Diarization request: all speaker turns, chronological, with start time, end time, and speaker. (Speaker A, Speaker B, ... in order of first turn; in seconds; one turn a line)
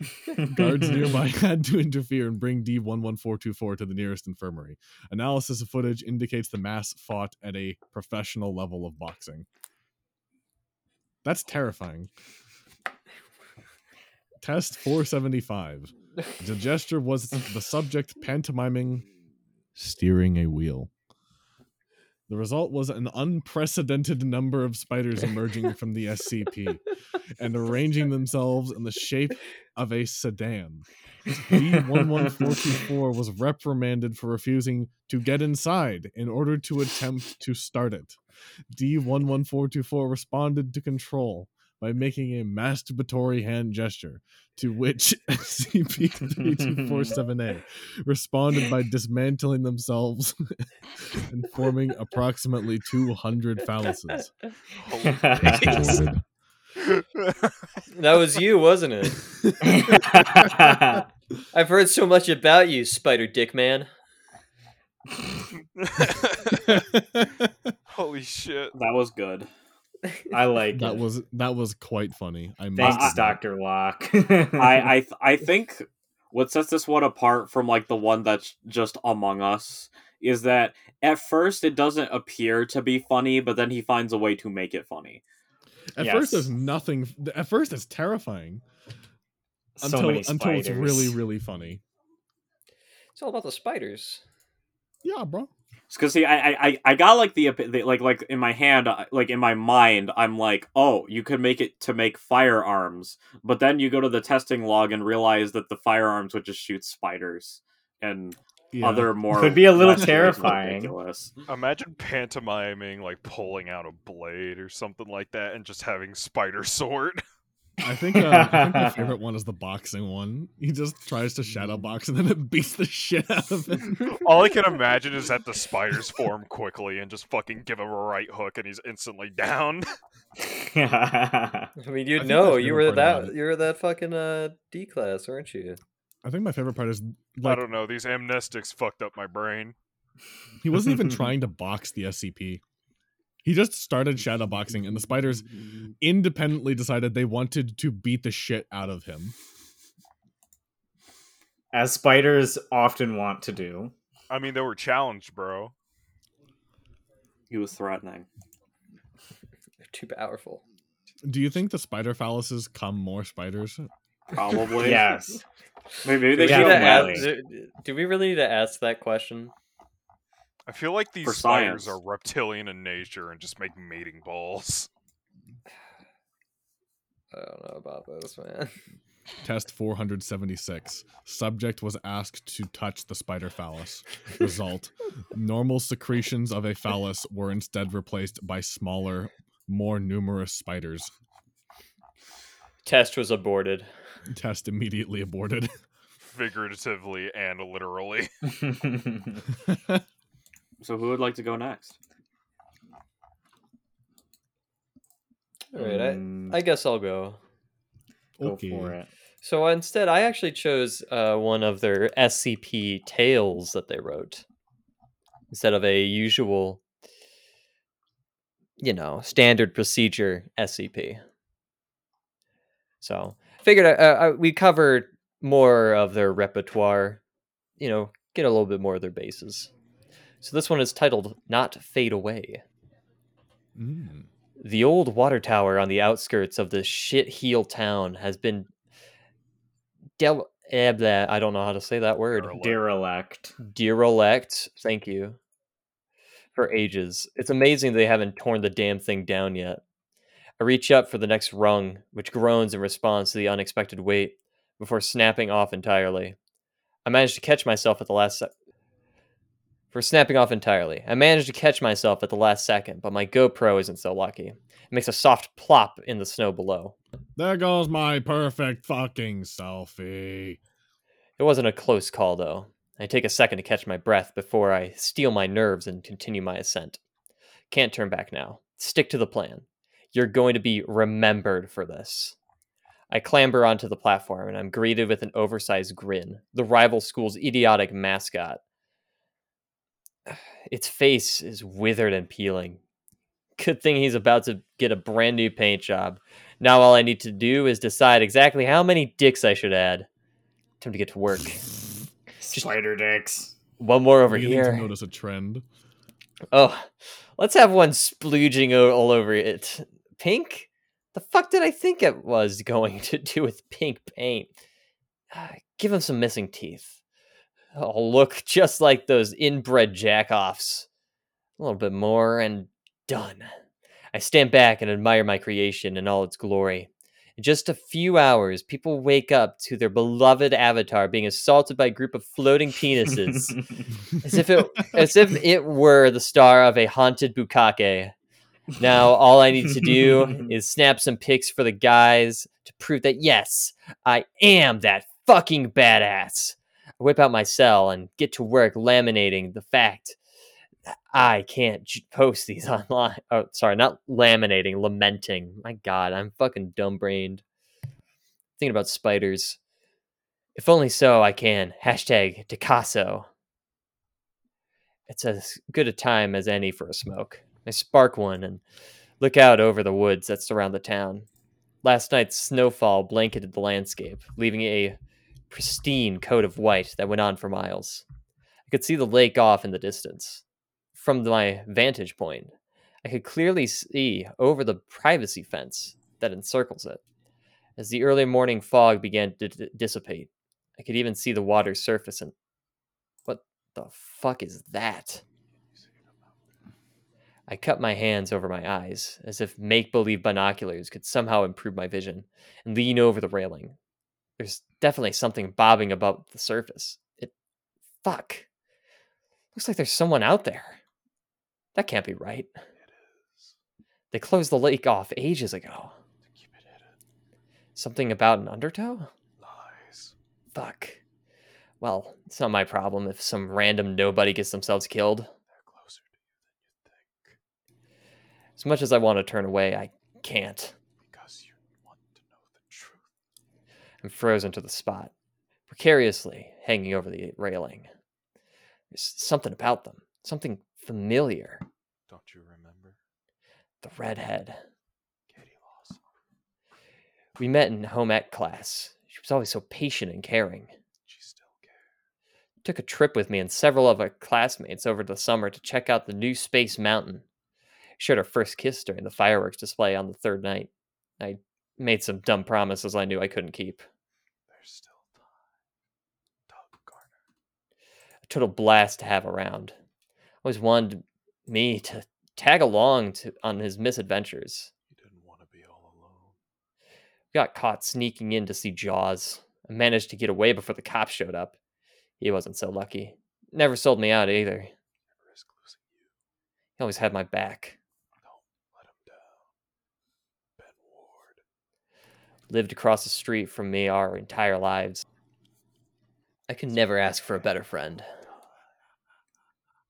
Speaker A: 0.2-9.5
Speaker B: 0.4-1.1
Speaker A: 11.2-12.1
Speaker A: 14.4-19.1
Speaker A: 19.8-20.9
Speaker A: 22.3-26.8
Speaker A: 27.3-38.2
Speaker B: 32.2-32.5
Speaker A: 38.7-54.3
Speaker B: 46.6-47.1
Speaker C: 54.8-55.9
Speaker B: 55.0-56.0
Speaker A: 55.4-56.2
Speaker C: 56.8-57.3
Speaker D: 57.9-59.2
Speaker B: 59.6-61.0
Speaker D: 61.5-63.9
Speaker C: 65.8-66.7
Speaker A: 66.6-67.5
Speaker C: 67.9-68.7
Speaker E: 68.7-69.5
Speaker B: 70.3-71.0
Speaker A: 70.7-73.4
Speaker B: 72.8-74.9
Speaker E: 72.8-73.1
Speaker E: 74.6-85.2
Speaker A: 85.9-88.6
Speaker B: 86.0-86.5
Speaker B: 89.8-91.2
Speaker A: 89.8-91.8
Speaker D: 93.2-94.2
Speaker A: 95.0-95.5
Speaker E: 95.9-111.3
Speaker A: 108.7-110.5
Speaker B: 109.3-110.9
Speaker C: 111.5-117.2
Speaker A: 117.8-124.2
Speaker B: 118.1-119.1
Speaker C: 124.1-129.8
Speaker B: 130.4-131.7
Speaker D: 131.8-135.8
Speaker A: 132.2-133.3
Speaker A: 136.2-137.7
Speaker C: 137.4-139.8
Speaker A: 140.6-142.6
Speaker A: 143.4-149.3
Speaker B: 151.7-153.9
Speaker C: 154.3-155.7
Speaker E: 157.5-158.3
Speaker D: 159.8-160.6
Speaker A: 161.2-163.9
Speaker E: 164.3-165.1
Speaker B: 164.8-165.4
Speaker E: 166.0-167.2
Speaker B: 166.3-167.3
Speaker D: 166.3-169.5
Speaker C: 170.7-174.9
Speaker E: 171.2-172.0
Speaker D: 177.3-178.8
Speaker A: 179.4-191.1
Speaker D: 192.8-193.9
Speaker A: 194.3-195.7
Speaker C: 196.2-198.3
Speaker B: 198.6-199.4
Speaker A: 199.6-200.0
Speaker E: 200.8-202.0
Speaker D: 205.7-207.4
Speaker B: 205.8-206.6
Speaker A: 208.4-208.9
Speaker B: 208.4-209.1
Speaker D: 209.4-214.4
Speaker D: 215.5-216.8
Speaker D: 218.8-221.2
Speaker D: 223.0-227.2
Speaker D: 227.8-229.7
Speaker D: 230.4-232.6
Speaker A: 233.8-234.3
Speaker D: 234.6-238.7
Speaker D: 240.2-242.6
Speaker C: 242.3-242.8
Speaker B: 242.5-243.5
Speaker D: 243.6-245.4
Speaker D: 246.6-249.8
Speaker D: 250.6-256.4
Speaker D: 257.0-258.5
Speaker D: 259.9-266.9
Speaker A: 267.4-270.6
Speaker D: 271.4-277.0
Speaker D: 277.7-282.4
Speaker D: 283.1-288.6
Speaker D: 290.3-292.8
Speaker D: 293.6-300.1
Speaker D: 300.8-301.7
Speaker B: 302.4-303.5
Speaker D: 303.8-304.9
Speaker A: 304.3-305.6
Speaker D: 306.5-314.5
Speaker D: 315.3-316.9
Speaker D: 317.7-320.9
Speaker D: 321.6-323.5
Speaker D: 324.1-333.6
Speaker D: 334.2-338.1
Speaker D: 338.8-350.2
Speaker B: 339.7-340.4
Speaker D: 351.1-357.4
Speaker D: 358.6-359.6
Speaker D: 360.5-363.3
Speaker D: 365.1-368.6
Speaker D: 369.2-371.3
Speaker D: 371.8-375.0
Speaker D: 375.5-378.0
Speaker D: 378.7-380.4
Speaker D: 380.9-387.0
Speaker D: 387.8-392.3
Speaker D: 393.3-395.2
Speaker D: 397.5-403.8
Speaker D: 404.4-407.3
Speaker D: 408.0-408.4
Speaker D: 409.5-410.8
Speaker D: 411.7-412.5
Speaker C: 412.9-413.5
Speaker D: 414.1-415.9
Speaker C: 416.4-416.9
Speaker D: 417.8-419.1
Speaker C: 419.4-420.1
Speaker D: 420.5-421.0
Speaker D: 421.8-425.3
Speaker C: 425.5-426.1
Speaker C: 426.8-427.3
Speaker D: 428.6-430.7
Speaker C: 431.1-433.0
Speaker D: 434.0-435.1
Speaker D: 435.7-437.9
Speaker D: 438.9-441.6
Speaker C: 442.1-442.9
Speaker D: 443.8-444.6
Speaker C: 445.3-446.0
Speaker D: 447.4-450.7
Speaker C: 451.1-451.8
Speaker D: 452.6-457.2
Speaker D: 458.0-463.8
Speaker C: 464.5-465.2
Speaker C: 466.5-467.1
Speaker D: 468.3-469.8
Speaker D: 470.4-474.7
Speaker C: 474.9-476.3
Speaker D: 477.3-481.6
Speaker D: 482.2-484.7
Speaker C: 485.2-485.9
Speaker D: 486.8-487.8
Speaker C: 488.2-489.4
Speaker C: 490.6-491.4
Speaker D: 492.5-495.0
Speaker D: 496.5-498.1